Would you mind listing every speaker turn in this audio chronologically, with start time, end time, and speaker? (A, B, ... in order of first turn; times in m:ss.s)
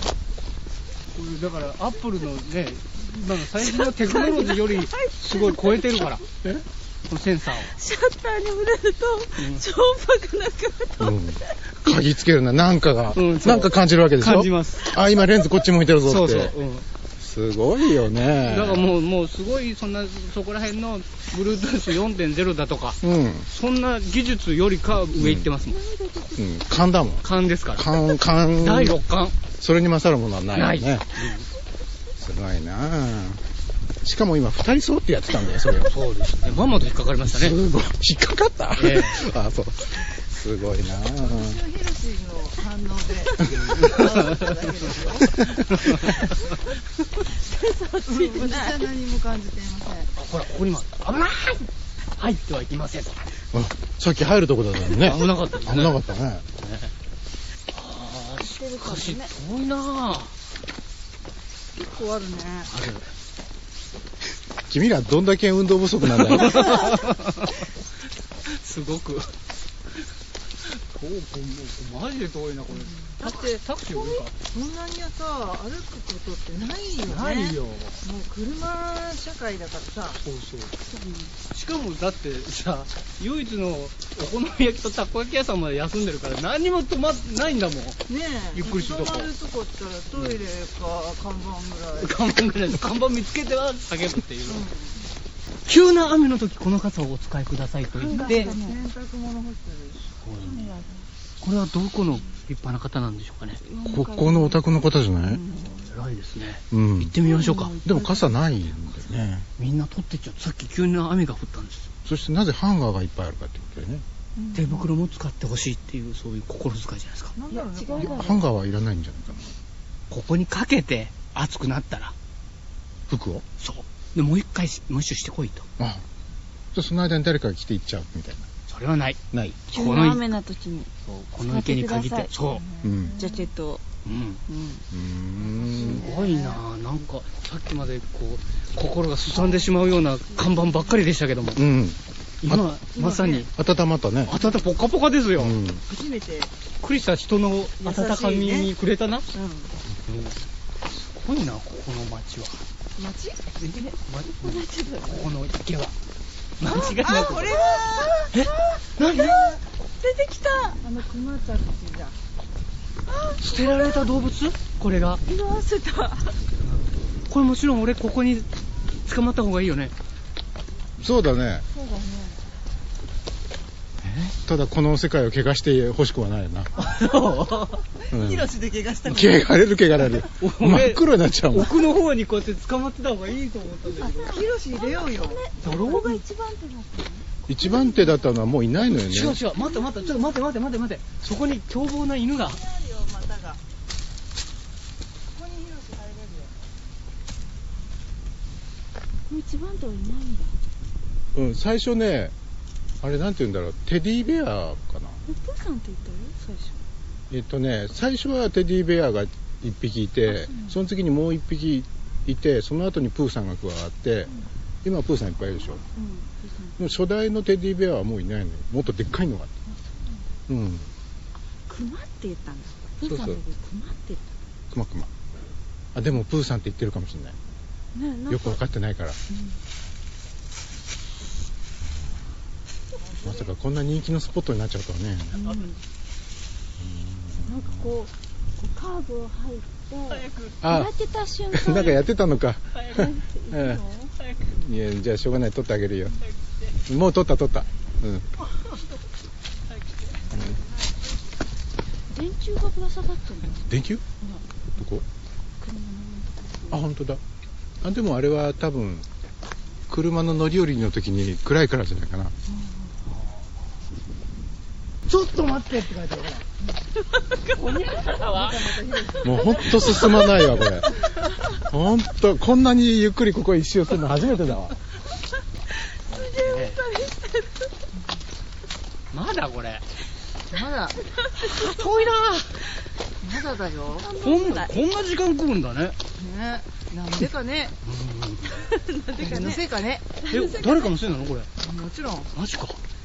0:01.1-0:06.5 A
0:03.6-0:06.2 B
0:07.1-0:07.8 A
0:07.6-0:11.6 B
0:09.4-0:09.6 A
0:11.0-0:16.5 C
0:13.1-0:15.0 A
0:16.0-0:16.8 A
0:17.2-0:18.9 C
0:18.3-0:25.8 A
0:23.0-0:23.5 C
0:25.2-0:25.5 C
0:25.7-0:26.6 B
0:26.4-0:29.0 C
0:27.2-0:29.4 A
0:29.6-0:31.1 C
0:30.5-0:31.5 A
0:32.2-0:33.4 C
0:34.0-0:35.9 C
0:35.8-0:37.6 A
0:37.2-0:41.6 C
0:38.8-0:39.2 A
0:41.2-0:45.6 D
0:45.7-0:46.3 A
0:47.3-0:48.8 B
0:48.0-0:50.1 D
0:50.2-0:53.2 A
0:53.5-0:56.4 C
0:54.9-0:56.0 A
0:56.6-0:56.9 A
0:57.7-1:00.3 A
0:58.4-0:59.3 B
1:01.7-1:02.7 D
1:02.7-1:03.0 A
1:04.7-1:07.0 C
1:06.0-1:07.6 A
1:08.4-1:09.3 A
1:10.8-1:14.3 A
1:13.0-1:20.2 D
1:17.1-1:18.0 A
1:20.2-1:20.8 A
1:20.8-1:21.4 B
1:21.5-1:29.3 A
1:28.1-1:32.1 D
1:32.0-1:34.6 A
1:34.4-1:35.0 D
1:35.6-1:38.5 A
1:38.0-1:38.8 B
1:38.1-1:40.7 D
1:40.2-1:40.6 A
1:40.4-1:41.1 B
1:41.4-1:43.6 A
1:43.6-1:45.8 B
1:43.8-1:45.4 C
1:45.6-1:47.8 A
1:46.7-1:47.2 C
1:47.2-1:48.4 B
1:47.8-1:49.5 C
1:49.6-1:51.9 A
1:52.0-1:54.0 C
1:54.4-1:54.9 D
1:54.5-1:57.3 A
1:57.4-1:58.4 D
1:57.5-1:58.4 B
1:57.9-1:59.5 C
2:00.1-2:02.1 A
2:03.1-2:03.4 C
2:03.6-2:05.6 A
2:05.8-2:06.0 C
2:06.7-2:08.5 C
2:08.7-2:10.2 A
2:09.3-2:09.6 C
2:09.7-2:10.9 B
2:11.0-2:12.6 A
2:11.4-2:12.3 B
2:12.4-2:13.5 D
2:12.8-2:13.2 C
2:13.2-2:13.8 B
2:14.0-2:14.4 A
2:14.5-2:14.8 B
2:14.9-2:15.8 C
2:15.6-2:21.6 A
2:15.7-2:16.6 D
2:15.8-2:16.2 B
2:19.3-2:19.7 D
2:21.6-2:22.8 C
2:22.4-2:23.5 A
2:23.0-2:23.4 B
2:23.5-2:24.3 C
2:24.2-2:25.6 A
2:25.4-2:25.8 C
2:25.9-2:26.5 D
2:26.8-2:29.2 A
2:27.8-2:28.7 D
2:29.3-2:29.7 D
2:30.1-2:30.4 A
2:30.9-2:32.6 A
2:33.0-2:33.4 D
2:33.6-2:35.9 A
2:33.7-2:35.2 B
2:36.6-2:37.6 A
2:36.7-2:38.4 D
2:37.8-2:38.3 B
2:38.3-2:39.6 A
2:39.2-2:39.6 D
2:40.0-2:40.8 B
2:40.8-2:42.2 D
2:43.1-2:44.1 B
2:43.4-2:45.2 A
2:45.3-2:46.4 B
2:46.7-2:48.5 A
2:49.0-2:49.9 A
2:51.0-2:51.6 C
2:51.7-2:52.1 B
2:51.9-2:52.3 D
2:54.0-2:54.3 A
2:54.4-2:56.8 C
2:56.8-2:57.8 A
2:58.0-2:59.5 D
2:58.1-2:58.5 C
2:59.1-3:01.8 C
3:00.3-3:04.3 A
3:03.9-3:08.3 B
3:04.2-3:05.5 D
3:05.6-3:06.2 A
3:07.5-3:09.4 C
3:08.8-3:12.6 A
3:09.5-3:10.4 B
3:12.4-3:13.6 D
3:15.3-3:16.5 D
3:19.3-3:20.5 B
3:21.3-3:22.3 C
3:23.0-3:25.2 C
3:25.2-3:26.8 B
3:27.3-3:34.3 C
3:30.2-3:30.8 B
3:34.8-3:35.8 C
3:35.9-3:36.8 B
3:36.8-3:39.5 C
3:39.7-3:40.2 B
3:40.5-3:40.9 C
3:41.7-3:44.3 B
3:43.0-3:43.4 C
3:44.7-3:45.1 C
3:45.9-3:47.4 C
3:47.9-3:48.6 B
3:48.3-3:49.2 C
3:49.3-3:49.6 B
3:53.2-3:55.4 C
3:55.3-3:55.8 B
3:55.4-3:55.7 A
3:56.8-3:57.9 C
3:57.4-4:02.0 B
4:00.1-4:00.6 A
4:00.6-4:00.9 C
4:01.5-4:03.8 C
4:02.8-4:04.1 B
4:04.2-4:04.5 A
4:04.5-4:06.2 C
4:06.2-4:06.7 A
4:06.9-4:08.3 C
4:09.7-4:10.4 A
4:12.1-4:14.4 B
4:13.7-4:14.0 C
4:14.8-4:15.0 C
4:15.6-4:16.8 B
4:16.7-4:17.2 C
4:17.8-4:19.1 C
4:19.9-4:22.3 C
4:22.5-4:22.9 B
4:25.0-4:26.5 A
4:27.0-4:28.2 B
4:27.5-4:28.7 A
4:28.2-4:29.8 D
4:29.2-4:30.9 C
4:29.4-4:30.6 B
4:31.6-4:34.8 C
4:36.0-4:37.7 B
4:36.1-4:36.8 A
4:39.1-4:39.8 A
4:40.5-4:41.1 D
4:41.4-4:42.6 A
4:43.2-4:44.1 D
4:44.0-4:44.8 B
4:44.2-4:46.0 A
4:46.2-4:47.7 D
4:47.8-4:48.7 A
4:48.5-4:49.6 B
4:49.2-4:50.0 D
4:50.2-4:50.9 B
4:50.3-4:51.5 A
4:51.6-4:52.3 D
4:52.3-4:52.8 A